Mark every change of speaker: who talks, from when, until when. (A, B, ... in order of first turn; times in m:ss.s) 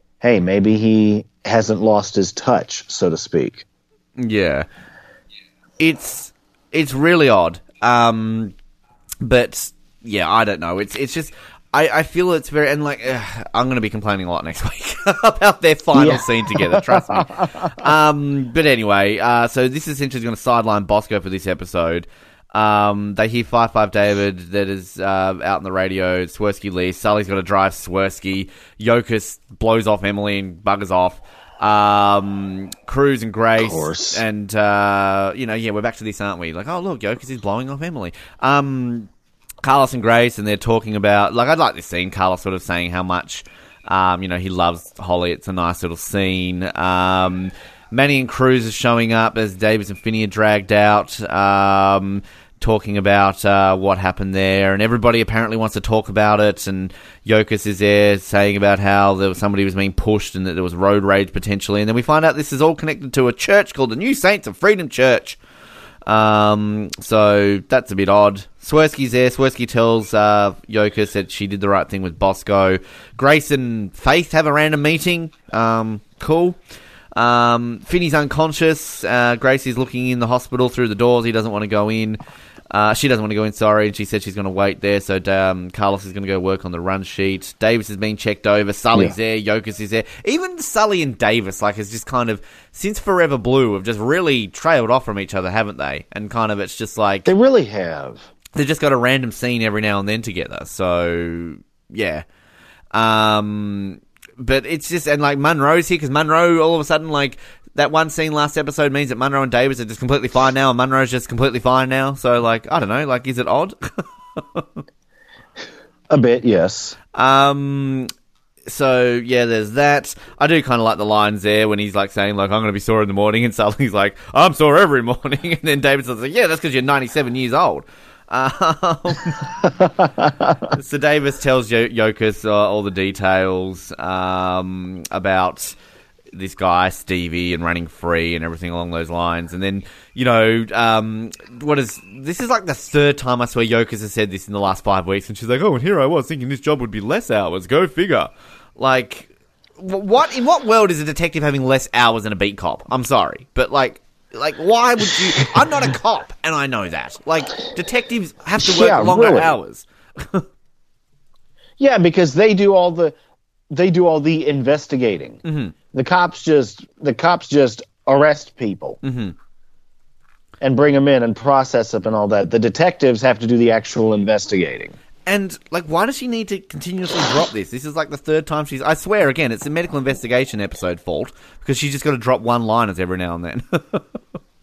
0:00.2-0:03.6 A
0:04.2-0:04.7 B
0:05.8-0:08.5 B
0:09.2-0:39.1 B
0:16.0-0:17.9 A
0:33.6-0:34.2 A
0:39.6-1:05.4 B
1:06.1-1:16.6 B
1:17.2-1:22.2 B
1:22.7-1:37.3 B
1:37.3-1:38.3 A
1:38.5-1:42.2 B
1:42.9-1:54.8 B
1:56.1-1:57.0 A
1:57.2-1:58.1 B
1:58.7-2:09.5 B
2:09.8-2:10.7 A
2:10.6-2:15.8 B
2:16.3-2:40.5 B
2:38.6-2:39.5 A
2:41.8-2:43.2 A
2:43.7-2:45.4 A
2:45.4-2:45.8 B
2:45.9-2:49.0 A
2:49.0-2:49.4 B
2:50.6-2:55.0 A
2:55.3-3:04.0 B